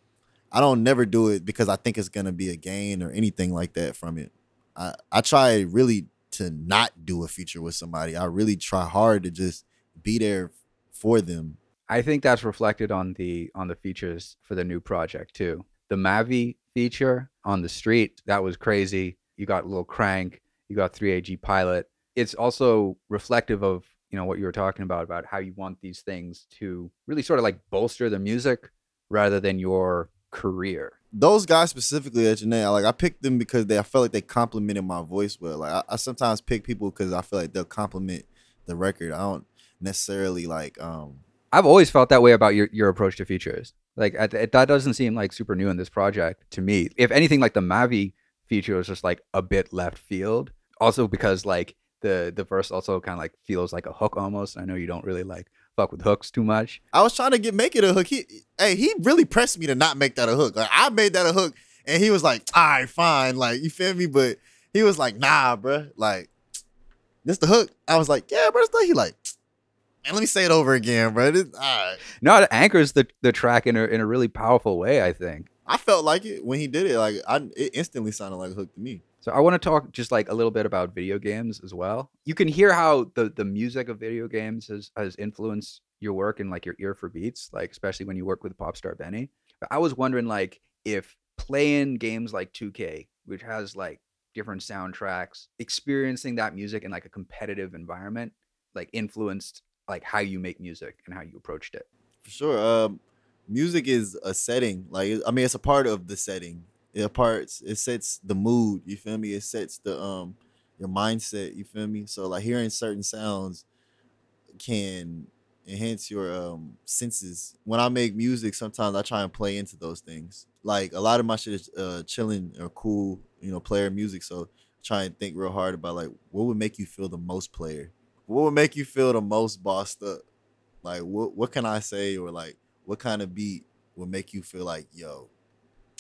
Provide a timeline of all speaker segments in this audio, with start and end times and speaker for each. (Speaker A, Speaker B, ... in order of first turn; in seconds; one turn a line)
Speaker A: 0.5-11.6
Speaker B: 11.9-31.0
Speaker A: 31.1-41.2
Speaker B: 41.5-56.8
Speaker A: 56.9-66.3
Speaker A: 67.2-69.3
Speaker A: 70.1-72.0
Speaker B: 72.2-75.5
Speaker A: 75.7-79.0
Speaker B: 79.2-101.9
Speaker A: 102.2-113.6
Speaker A: 114.6-130.2
Speaker A: 130.8-135.3